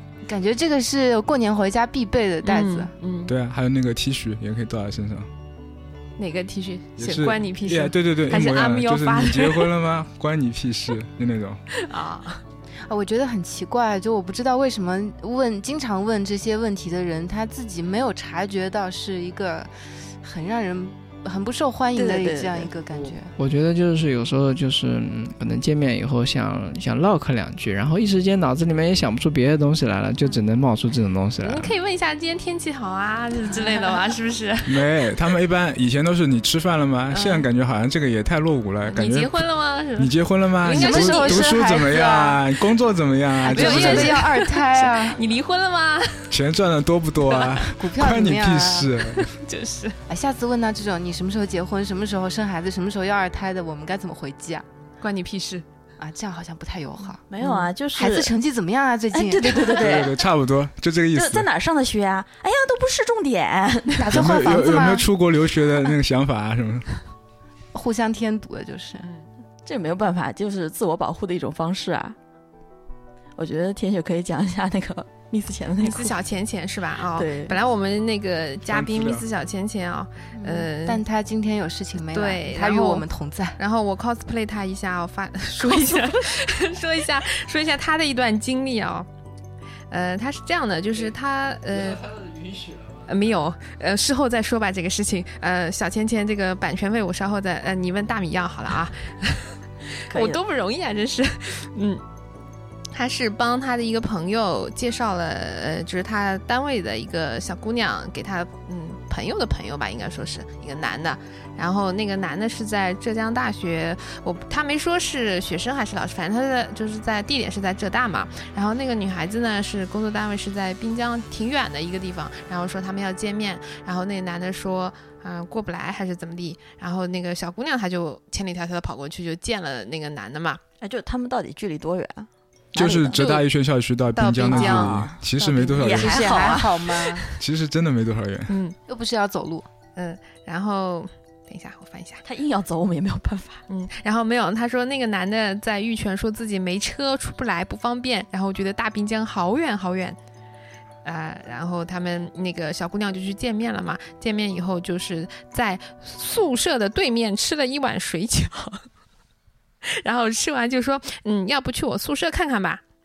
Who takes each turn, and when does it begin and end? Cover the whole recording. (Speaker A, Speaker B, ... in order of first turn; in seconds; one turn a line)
Speaker A: 0.2-2.9
Speaker B: 2.4-3.3
Speaker C: 3.2-5.3
Speaker B: 6.2-9.7
Speaker C: 7.0-11.6
Speaker B: 11.8-12.4
Speaker A: 12.9-19.7
Speaker A: 20.2-23.3
Speaker D: 21.9-22.7
Speaker E: 23.4-31.7
Speaker B: 31.4-34.8
Speaker C: 34.6-39.4
Speaker B: 37.1-37.5
Speaker B: 38.9-40.1
Speaker C: 40.0-44.2
Speaker B: 40.6-42.3
Speaker A: 40.6-42.4
Speaker A: 43.4-45.2
Speaker B: 43.5-46.3
Speaker C: 46.3-49.3
Speaker B: 47.3-47.6
Speaker A: 47.8-48.9
Speaker B: 49.0-50.0
Speaker A: 50.1-54.6
Speaker B: 55.0-55.6
Speaker A: 56.0-57.2
Speaker D: 57.3-58.3
Speaker B: 57.4-57.6
Speaker A: 57.9-59.9
Speaker D: 59.1-60.2
Speaker C: 59.8-61.5
Speaker D: 61.1-64.0
Speaker A: 64.0-65.1
Speaker C: 64.1-66.9
Speaker A: 67.7-69.1
Speaker D: 69.7-72.2
Speaker D: 73.4-76.1
Speaker B: 75.8-81.0
Speaker D: 77.1-77.6
Speaker C: 78.7-79.2
Speaker A: 80.3-83.6
Speaker B: 82.0-83.0
Speaker B: 83.6-89.1
Speaker D: 85.6-86.2
Speaker B: 89.9-92.1
Speaker E: 92.1-93.0
Speaker B: 93.1-99.5
Speaker D: 100.1-100.4
Speaker B: 100.1-102.0
Speaker B: 102.9-130.6
Speaker D: 130.8-133.2
Speaker C: 132.7-136.3
Speaker B: 133.1-133.4
Speaker B: 134.2-135.1
Speaker D: 134.5-135.2
Speaker A: 135.4-137.3
Speaker D: 135.8-136.9
Speaker B: 136.1-136.5
Speaker C: 137.4-138.5
Speaker B: 138.5-138.7
Speaker A: 138.9-139.7
Speaker B: 139.9-142.2
Speaker D: 142.2-143.6
Speaker B: 143.7-150.2
Speaker B: 151.0-158.8
Speaker B: 159.8-162.8